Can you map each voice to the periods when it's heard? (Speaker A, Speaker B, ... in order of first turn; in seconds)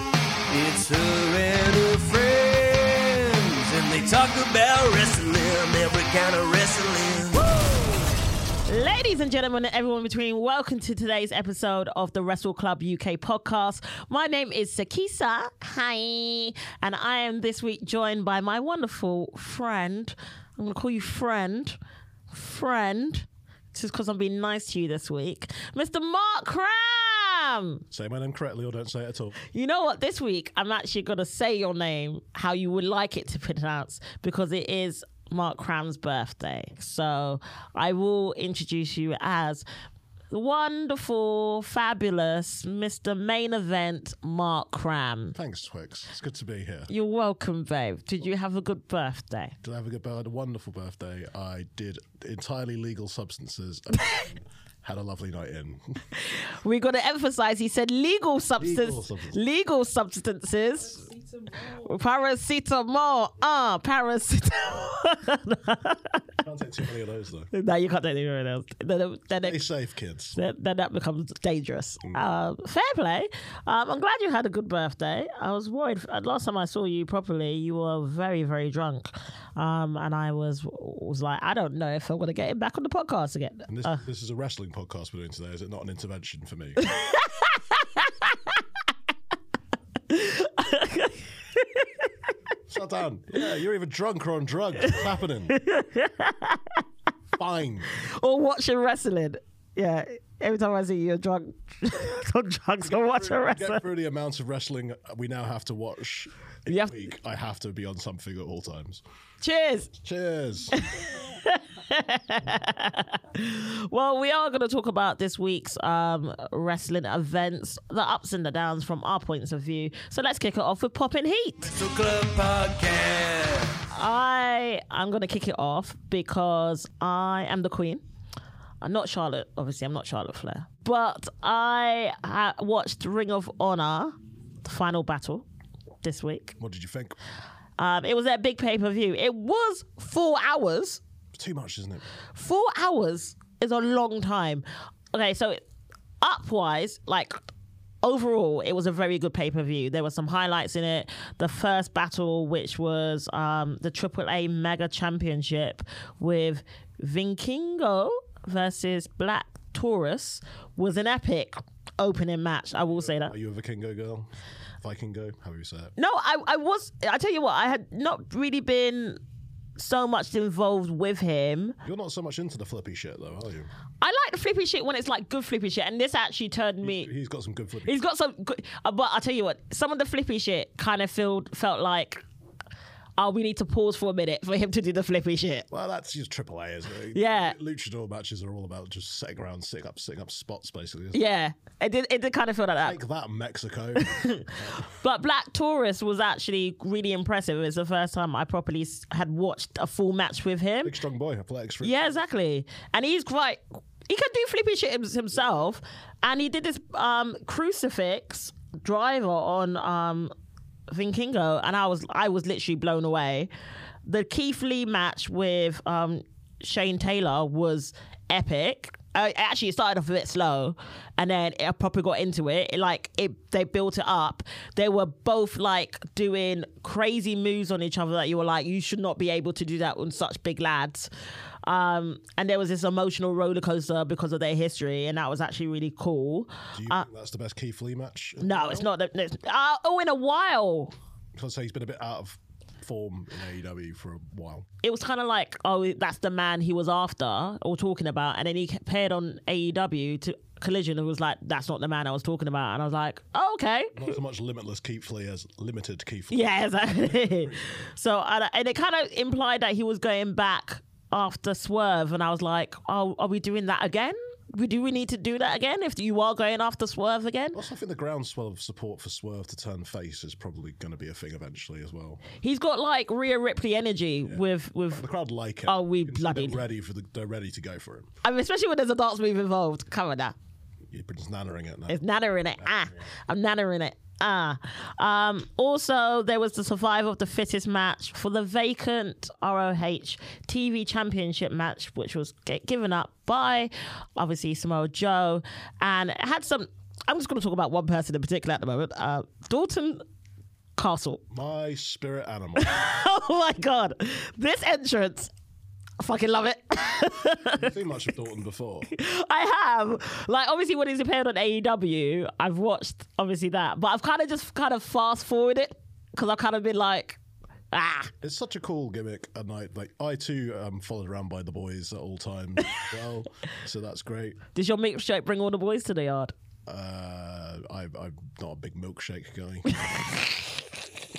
Speaker A: 0.5-7.5, 121.7-123.8
Speaker B: 7.4-8.1, 8.7-21.8, 22.3-27.8, 29.5-39.6, 40.3-45.4, 46.9-49.6, 56.1-66.2, 67.5-69.6, 70.4-84.0, 86.8-88.6, 90.1-92.1, 95.5-96.8, 97.9-103.8, 106.7-107.0, 109.4-109.9, 110.7-121.7, 123.9-128.0, 128.8-135.5, 136.0-136.6, 137.8-141.0, 142.3-145.6, 146.2-147.4, 148.0-163.3, 166.0-169.2, 169.8-171.8, 174.0-177.1, 177.9-182.2, 183.2-185.7, 187.1-187.6, 191.1-193.0, 194.0-200.9, 201.8-210.3, 210.9-213.5, 214.1-231.1, 231.7-237.1, 238.4-240.9, 244.8-254.1, 256.3-267.6, 272.4-275.1, 275.7-276.6, 278.2-280.4, 281.9-300.0, 300.8-301.2, 302.6-305.3, 306.0-307.7, 308.9-317.2, 317.7-318.1, 324.6-326.3, 329.7-330.3
Speaker C: 27.9-29.4, 45.4-46.9, 49.6-55.9, 58.6-59.4, 66.4-67.5, 69.4-70.4, 83.7-86.8, 92.7-95.6, 97.4-97.9, 102.9-109.0, 110.0-110.8, 136.6-137.2, 141.3-142.0, 163.0-164.3, 164.8-165.9, 171.8-173.7, 176.8-177.9, 185.7-191.2, 192.8-194.8, 200.8-202.1, 236.7-238.9, 241.3-244.7, 253.9-257.6, 267.5-272.2, 274.2-278.1, 280.9-282.0, 282.6-283.1, 301.3-302.9, 307.4-308.9, 318.2-324.4, 326.7-329.8